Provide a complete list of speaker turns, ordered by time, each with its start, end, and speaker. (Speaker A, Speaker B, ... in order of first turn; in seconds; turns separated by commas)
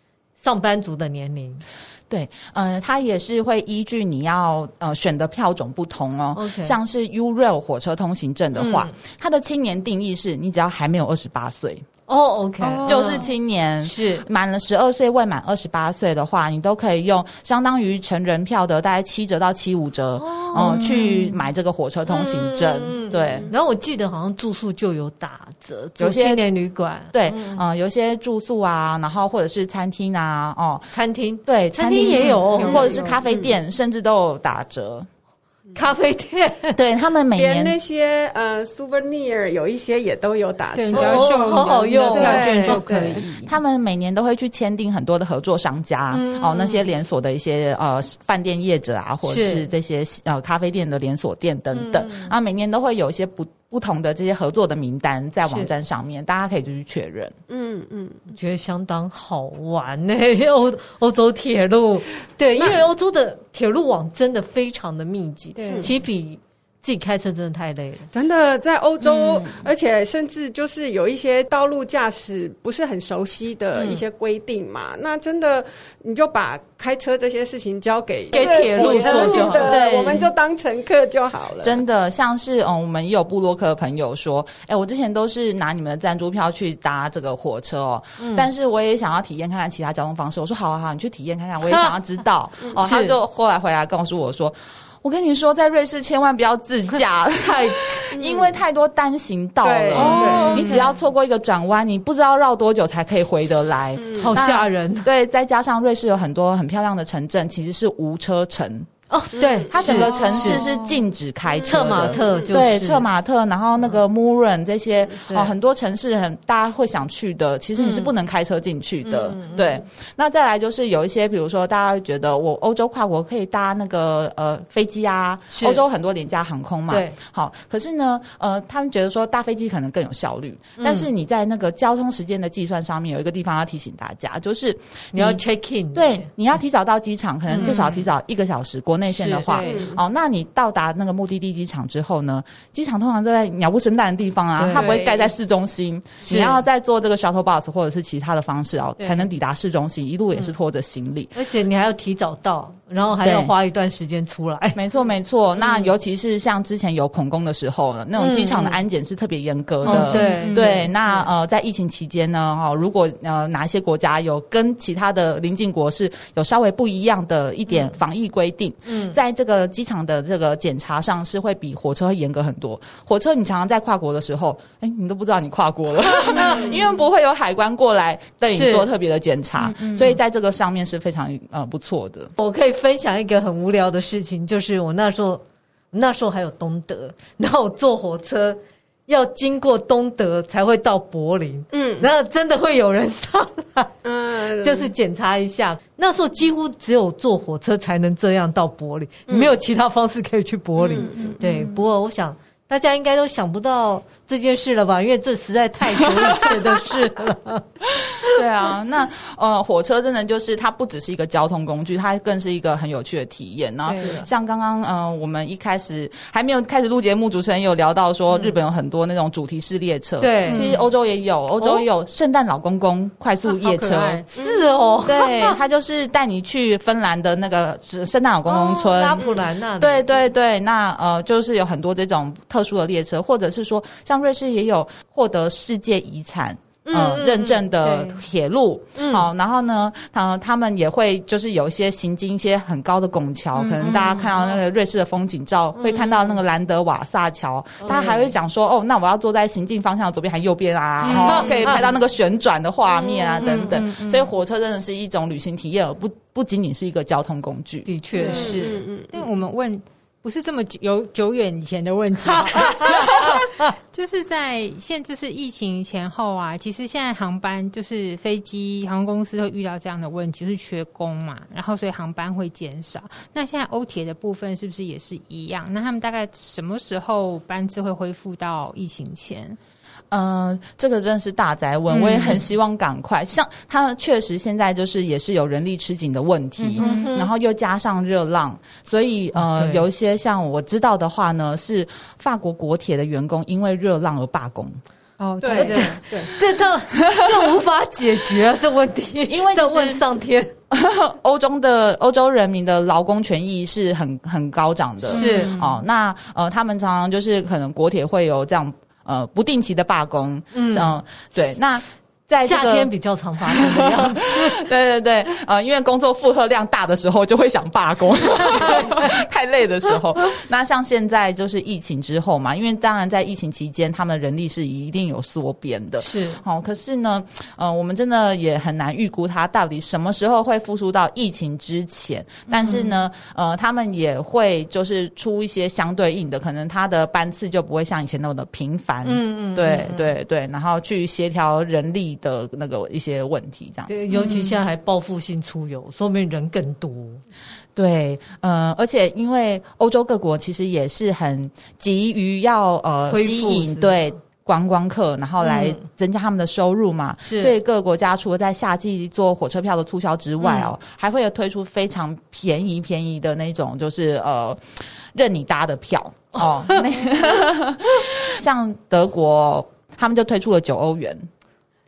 Speaker A: 0.4-1.6, Speaker B: 2.1-11.8, Speaker A: 6.3-6.8, Speaker A: 8.6-8.9, Speaker A: 12.1-13.3, Speaker C: 12.6-13.3, Speaker B: 12.8-23.5, Speaker A: 13.8-14.2, Speaker A: 20.2-21.3, Speaker A: 22.1-27.6, Speaker B: 26.0-26.4, Speaker B: 27.1-30.9, Speaker A: 30.9-33.1, Speaker B: 31.4-35.1, Speaker C: 32.0-33.2, Speaker D: 32.6-33.6, Speaker A: 35.7-36.8, Speaker B: 36.7-37.8, Speaker D: 37.3-41.3, Speaker C: 40.7-43.5, Speaker A: 40.9-43.2, Speaker D: 42.1-43.2, Speaker B: 43.5-57.3, Speaker A: 46.1-46.9, Speaker A: 49.2-49.6, Speaker A: 51.7-52.3, Speaker A: 55.4-55.7, Speaker D: 57.5-58.3, Speaker A: 58.3-68.1, Speaker C: 65.5-65.9, Speaker D: 65.6-65.9, Speaker D: 68.1-81.8, Speaker A: 73.7-74.0, Speaker A: 78.3-79.8, Speaker C: 78.9-79.6, Speaker B: 79.5-80.3, Speaker B: 81.6-108.9, Speaker A: 88.2-88.5, Speaker A: 91.6-92.0, Speaker A: 92.8-93.1, Speaker A: 97.4-98.1, Speaker D: 98.1-98.5, Speaker D: 99.6-100.8, Speaker A: 99.9-100.8, Speaker C: 99.9-100.9, Speaker D: 104.0-104.3, Speaker A: 104.2-105.1, Speaker A: 109.1-110.6, Speaker D: 109.4-110.0, Speaker B: 109.6-135.4, Speaker C: 109.8-111.0, Speaker D: 111.5-112.6, Speaker A: 111.6-113.0, Speaker A: 115.3-115.5, Speaker A: 117.8-118.1, Speaker A: 119.0-119.8, Speaker A: 125.5-125.8, Speaker A: 126.9-127.2, Speaker A: 130.8-131.1, Speaker A: 135.1-136.3, Speaker B: 135.9-151.3, Speaker A: 137.5-138.1, Speaker A: 139.1-139.5, Speaker C: 139.5-139.8, Speaker D: 139.6-140.0, Speaker A: 144.6-144.9, Speaker D: 144.7-145.3, Speaker A: 146.2-146.6, Speaker A: 151.3-154.8, Speaker B: 153.2-153.5, Speaker B: 154.7-182.3, Speaker A: 158.2-158.8, Speaker C: 159.8-160.9, Speaker A: 159.8-161.2, Speaker A: 168.9-169.2, Speaker A: 176.1-176.7, Speaker D: 176.4-176.8, Speaker A: 178.5-178.8, Speaker C: 179.6-180.2, Speaker A: 182.3-193.9, Speaker D: 191.7-192.1, Speaker D: 194.0-194.9, Speaker A: 194.6-207.6, Speaker D: 199.3-199.5, Speaker D: 200.8-201.4, Speaker C: 200.9-201.8, Speaker B: 206.1-206.9, Speaker B: 207.9-224.2, Speaker A: 213.9-214.3, Speaker A: 220.2-220.7, Speaker C: 220.5-220.9, Speaker C: 223.4-224.3, Speaker A: 224.3-225.6, Speaker D: 224.3-224.7, Speaker B: 225.0-257.9, Speaker A: 228.5-230.1, Speaker A: 236.8-237.6, Speaker C: 237.8-238.2, Speaker A: 238.9-239.3, Speaker C: 243.5-244.5, Speaker A: 245.8-246.3, Speaker A: 247.8-248.3, Speaker C: 251.0-251.8, Speaker A: 251.0-251.8, Speaker C: 253.0-254.3, Speaker A: 253.4-253.8, Speaker A: 257.9-258.8, Speaker C: 258.1-279.6, Speaker D: 258.2-259.2, Speaker A: 262.2-263.7, Speaker B: 280.1-294.8, Speaker C: 281.9-282.4, Speaker C: 286.7-287.1, Speaker A: 286.8-287.3, Speaker A: 289.4-289.8, Speaker C: 295.2-296.1, Speaker D: 295.4-296.3, Speaker A: 295.5-300.5, Speaker B: 299.3-300.0, Speaker B: 300.7-312.9, Speaker C: 305.1-305.8, Speaker A: 305.1-305.5, Speaker A: 310.5-311.0, Speaker A: 312.4-314.6, Speaker B: 313.5-344.3, Speaker A: 318.4-319.1, Speaker A: 326.0-326.4, Speaker C: 332.5-332.8, Speaker A: 339.0-340.1, Speaker A: 343.9-347.2, Speaker C: 344.1-344.6, Speaker B: 347.7-371.3, Speaker A: 353.1-353.9, Speaker A: 355.4-355.8, Speaker A: 357.2-357.5, Speaker A: 360.4-360.7, Speaker A: 366.4-366.8